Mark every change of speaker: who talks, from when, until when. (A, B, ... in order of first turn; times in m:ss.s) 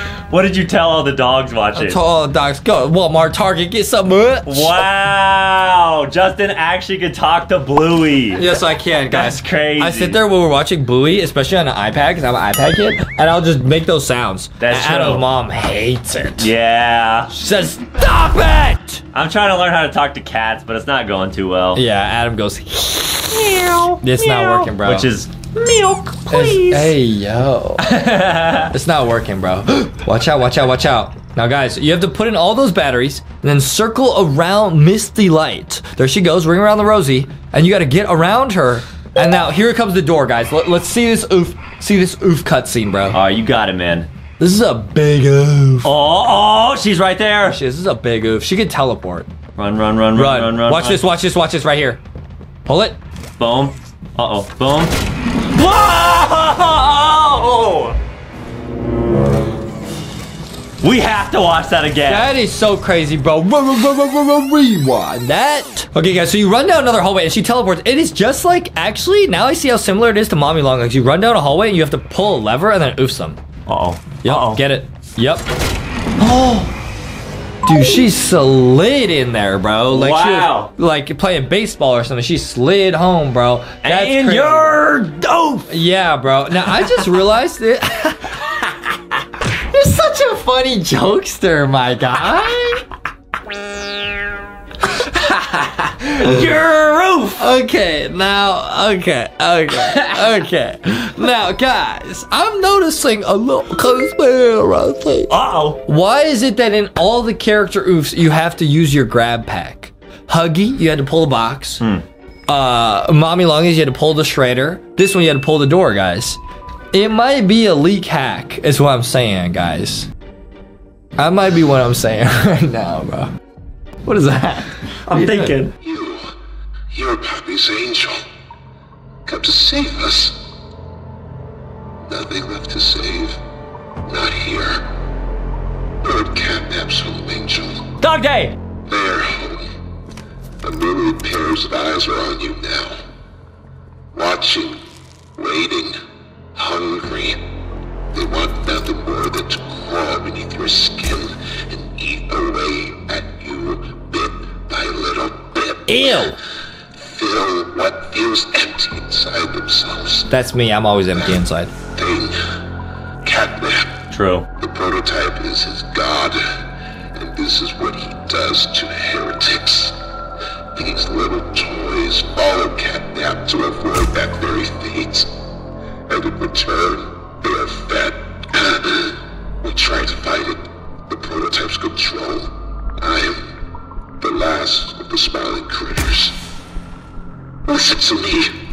0:00.3-0:02.0 A
0:01.7-0:04.8 B
0:04.4-0:08.6 A
0:08.3-0:16.5 B
0:09.1-0:10.2 A
0:14.6-0:15.3 A
0:16.4-0:17.3 A
0:17.3-0:19.0 B
0:19.1-0:21.8 A
0:21.7-0:25.1 B
0:23.3-0:26.9 A
0:26.3-0:28.0 B
0:27.8-0:28.7 A
0:28.5-0:43.2 B
0:43.1-0:44.1 A
0:44.4-0:45.9 B
0:45.8-0:47.6 A
0:47.4-0:49.3 B
0:49.6-0:51.0 A
0:50.1-0:52.0 B
0:52.6-0:53.0 B
0:53.4-0:58.0 A
1:00.8-1:02.3 A
1:02.1-1:13.4 B
1:13.7-1:14.6 A
1:14.2-1:15.4 B
1:16.2-1:16.7 B
1:17.6-1:24.7 B
1:19.9-1:20.7 A
1:23.8-1:25.7 A
1:25.7-1:28.7 B
1:26.7-1:27.2 A
1:29.4-1:32.8 B
1:34.8-1:36.4 B
1:35.8-1:37.4 A
1:37.4-1:45.3 B
1:39.7-1:40.4 A
1:45.3-1:45.8 A
1:45.8-1:51.8 B
1:52.5-1:56.4 B
1:56.9-2:00.1 B
2:01.2-2:03.3 B
2:04.0-2:05.6 B
2:05.1-2:05.8 A
2:05.8-2:06.3 C
2:06.9-2:08.2 C
2:09.2-2:10.4 C
2:12.0-2:13.4 C
2:14.0-2:14.8 C
2:16.0-2:17.8 C
2:18.0-2:18.5 A
2:18.8-2:19.7 C
2:20.6-2:23.0 C
2:24.1-2:24.8 C
2:25.3-2:26.0 C
2:26.5-2:27.4 C
2:28.1-2:36.2 C
2:35.9-2:36.4 B
2:36.9-2:40.3 C
2:40.3-2:41.7 B
2:41.9-2:42.4 C
2:43.2-2:44.0 C
2:44.1-2:44.4 A
2:44.6-2:46.4 C
2:47.1-2:50.0 C
2:50.7-2:55.3 C
2:56.1-3:03.4 C
3:04.2-3:06.4 C
3:07.6-3:08.5 C